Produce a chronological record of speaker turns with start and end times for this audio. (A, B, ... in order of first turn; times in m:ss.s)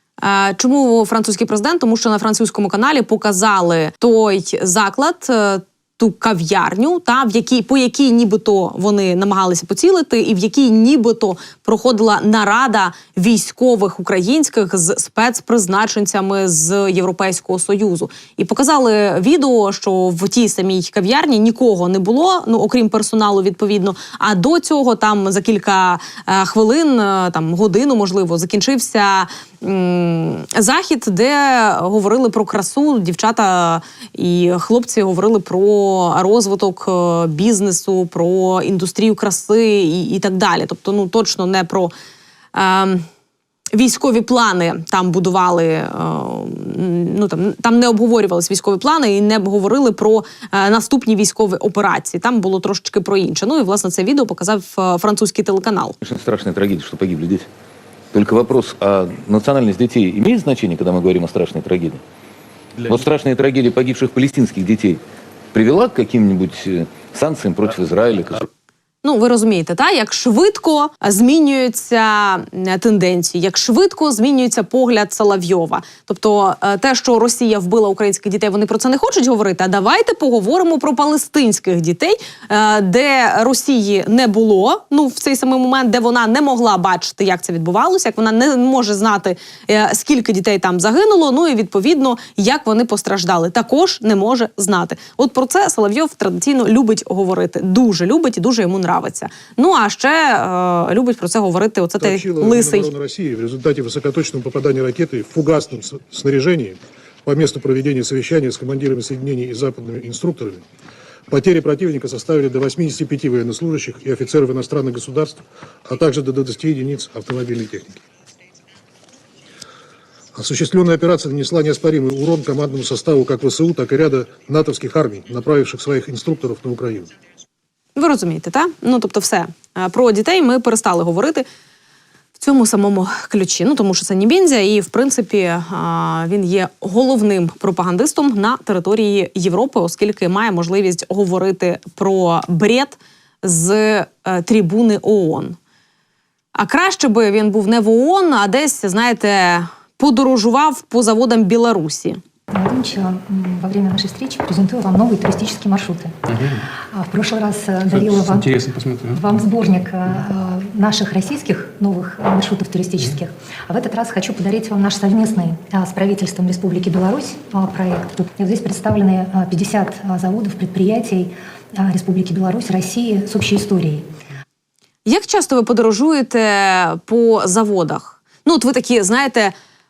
0:00.2-0:41.9 A
0:42.5-0:43.0 A
0:43.7-0:56.0 A
0:56.0-0:57.5 B
0:58.1-1:02.0 B
1:02.8-1:05.0 B
1:05.5-1:08.5 B
1:09.0-1:42.9 A
1:42.0-1:50.6 C
1:51.3-1:58.0 C
2:00.4-2:07.1 C
2:08.0-2:11.5 A
2:12.4-2:25.6 A
2:26.6-2:32.2 A
2:32.5-2:36.1 D
2:36.9-2:54.0 D
2:55.1-2:59.5 A